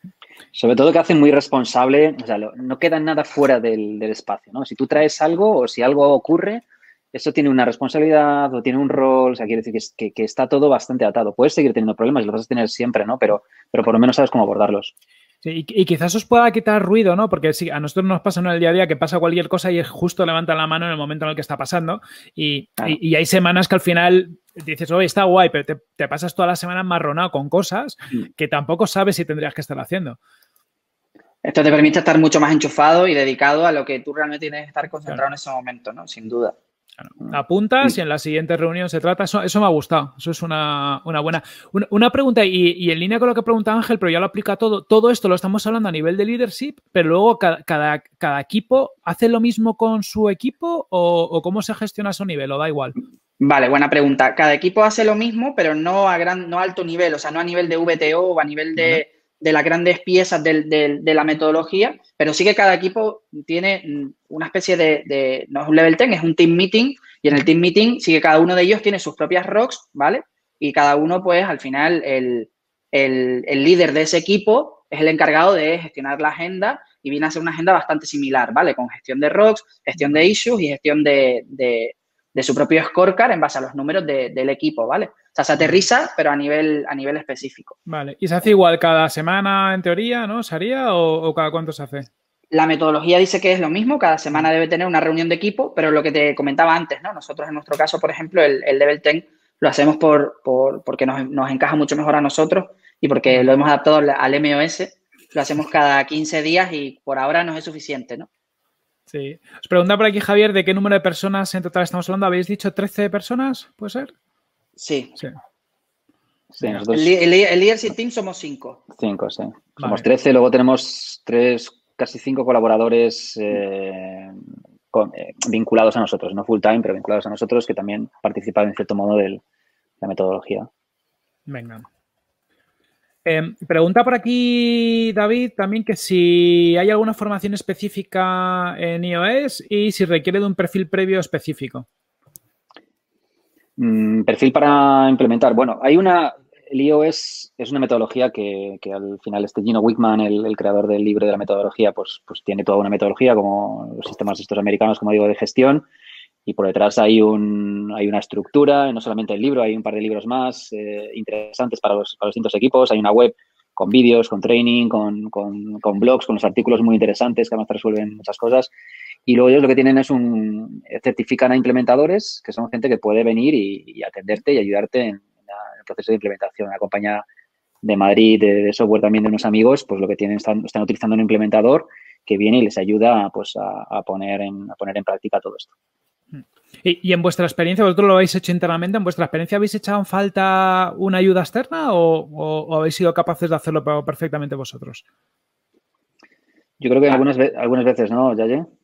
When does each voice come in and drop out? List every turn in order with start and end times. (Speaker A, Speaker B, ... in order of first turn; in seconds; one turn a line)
Speaker A: 0.5-14.9
Speaker B: 15.4-30.2
Speaker C: 31.4-36.5
Speaker B: 37.0-53.0
Speaker C: 53.4-87.8
Speaker B: 87.9-92.1
Speaker C: 92.5-108.3
Speaker B: 109.1-114.1
Speaker C: 114.8-115.1
Speaker A: 116.5-117.1
Speaker B: 116.6-116.9
Speaker C: 116.9-118.8
Speaker A: 118.9-124.4
Speaker B: 119.8-120.0
Speaker A: 124.9-129.4
Speaker A: 130.0-130.7
Speaker B: 131.5-131.8
Speaker B: 133.2-141.9
Speaker A: 143.8-155.8
Speaker A: 156.4-168.7
Speaker A: 169.2-177.2
Speaker A: 177.8-185.7
Speaker B: 186.3-195.0
Speaker A: 196.8-198.7